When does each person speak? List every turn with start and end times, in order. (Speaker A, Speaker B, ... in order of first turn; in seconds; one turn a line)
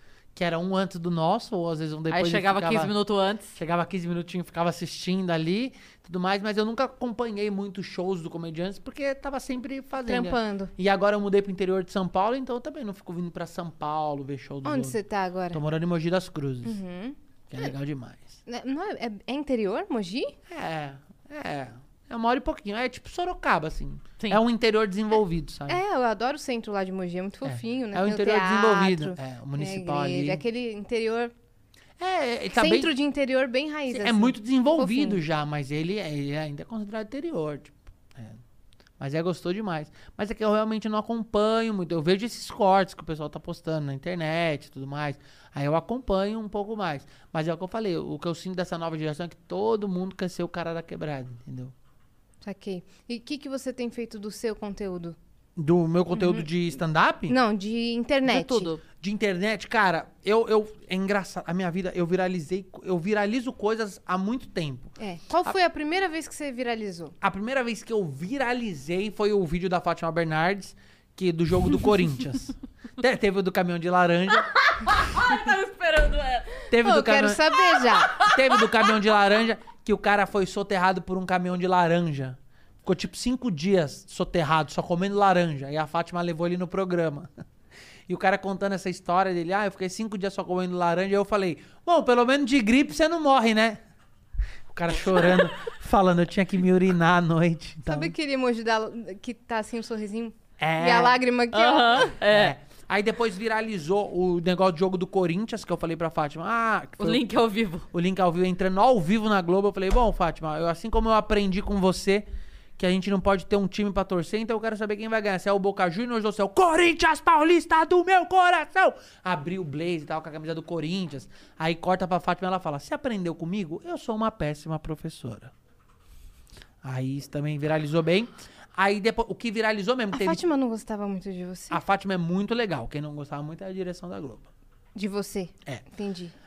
Speaker A: 0.3-2.9
Speaker B: 2.1-3.6
Speaker A: 3.6-15.0
Speaker C: 10.1-10.7
Speaker C: 14.7-15.6
Speaker A: 15.5-16.8
Speaker C: 16.6-17.7
Speaker A: 17.5-18.4
Speaker C: 18.5-20.4
Speaker A: 20.5-25.8
Speaker C: 25.7-31.3
Speaker A: 27.4-30.4
Speaker A: 32.0-32.9
Speaker C: 32.5-35.2
Speaker A: 33.9-38.4
Speaker A: 39.0-51.7
Speaker C: 52.4-55.2
Speaker A: 55.6-57.4
Speaker C: 56.1-56.5
Speaker C: 57.3-58.7
Speaker B: 58.3-58.8
Speaker A: 58.9-65.0
Speaker C: 65.0-67.2
Speaker A: 67.2-74.5
Speaker B: 74.5-76.6
Speaker A: 76.7-77.5
Speaker C: 76.8-78.2
Speaker B: 78.0-78.4
Speaker A: 78.2-87.3
Speaker A: 88.1-93.8
Speaker A: 94.7-98.1
Speaker C: 97.9-102.1
Speaker A: 100.6-101.2
Speaker B: 101.5-102.5
Speaker A: 102.1-107.2
Speaker B: 107.0-107.9
Speaker A: 107.9-125.5
Speaker A: 126.8-130.4
Speaker C: 130.1-131.8
Speaker A: 131.7-134.5
Speaker C: 135.0-136.3